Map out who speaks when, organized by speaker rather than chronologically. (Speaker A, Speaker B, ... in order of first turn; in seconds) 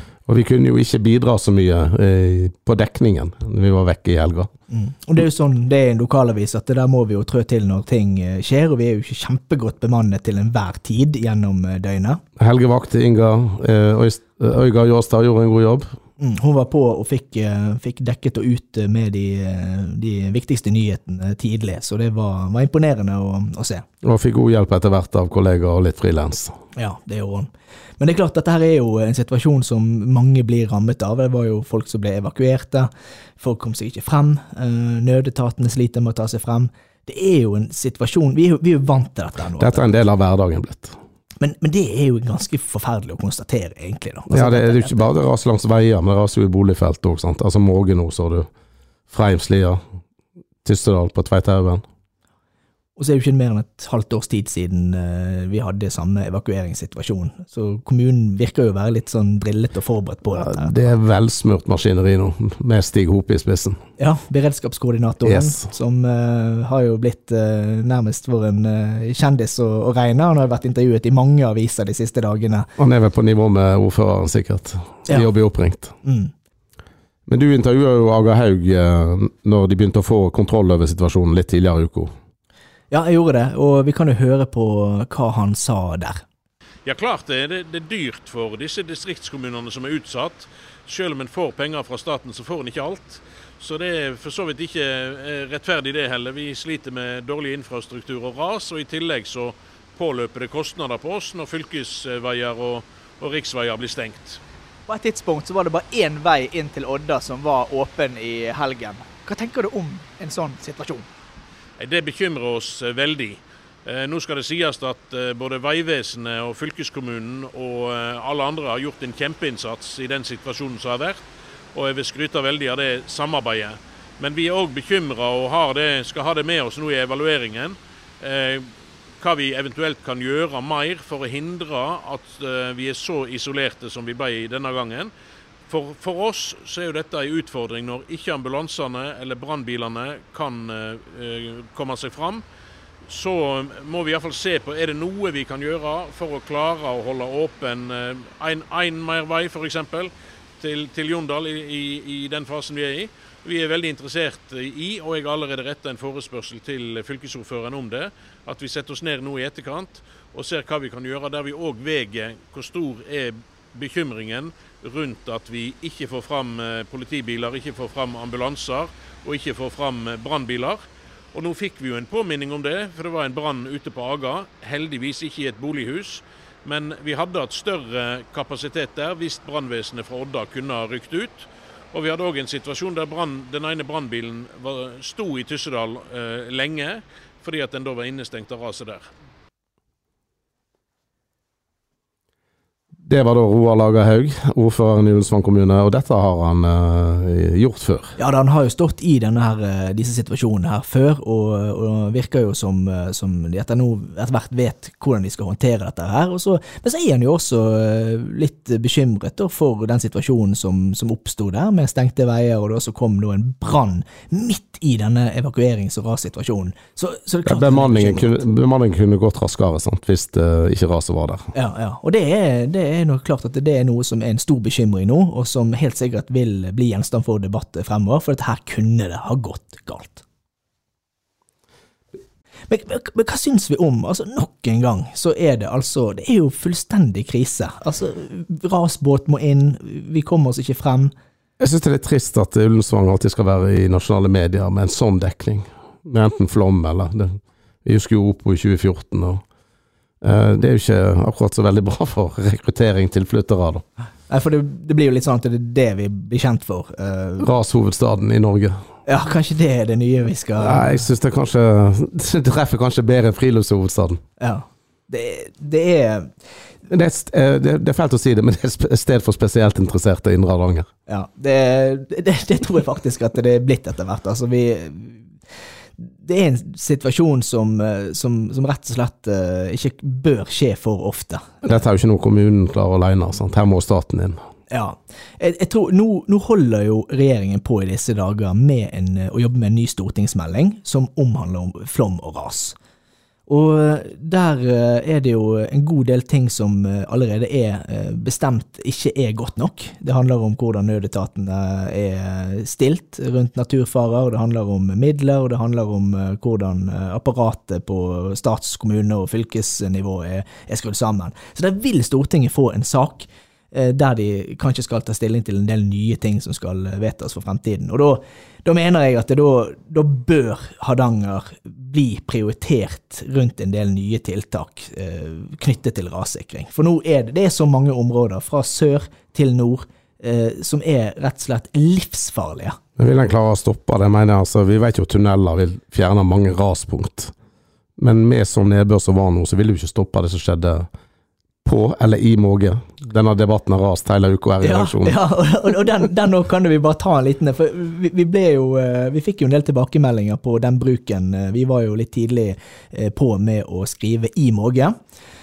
Speaker A: 0.3-4.5, 12.4-15.9, 24.0-26.6, 39.6-41.0, 44.3-48.5, 49.1-49.8, 50.6-51.8, 60.4-63.8, 65.2-65.6, 72.8-75.9, 77.3-82.1, 193.0-198.2, 217.4-221.5, 241.6-249.4, 250.2-253.8, 257.4-258.8, 260.6-264.2, 266.9-270.9, 281.6-284.4, 333.0-337.3, 338.0-340.9, 341.6-345.2
Speaker B: 4.7-12.2, 16.2-23.8, 26.7-39.8, 41.4-45.1, 53.0-60.7, 64.0-72.7, 76.0-76.3, 82.9-86.2, 104.9-111.1, 198.2-218.4, 221.5-230.2, 232.7-241.1, 254.3-257.5, 259.1-261.0, 264.4-266.3, 271.1-275.2, 276.0-281.4, 284.7-292.8, 293.5-332.8, 344.6-354.9
Speaker C: 86.9-104.4, 111.8-121.2, 121.7-135.1, 135.7-142.4, 143.1-170.8, 171.3-189.1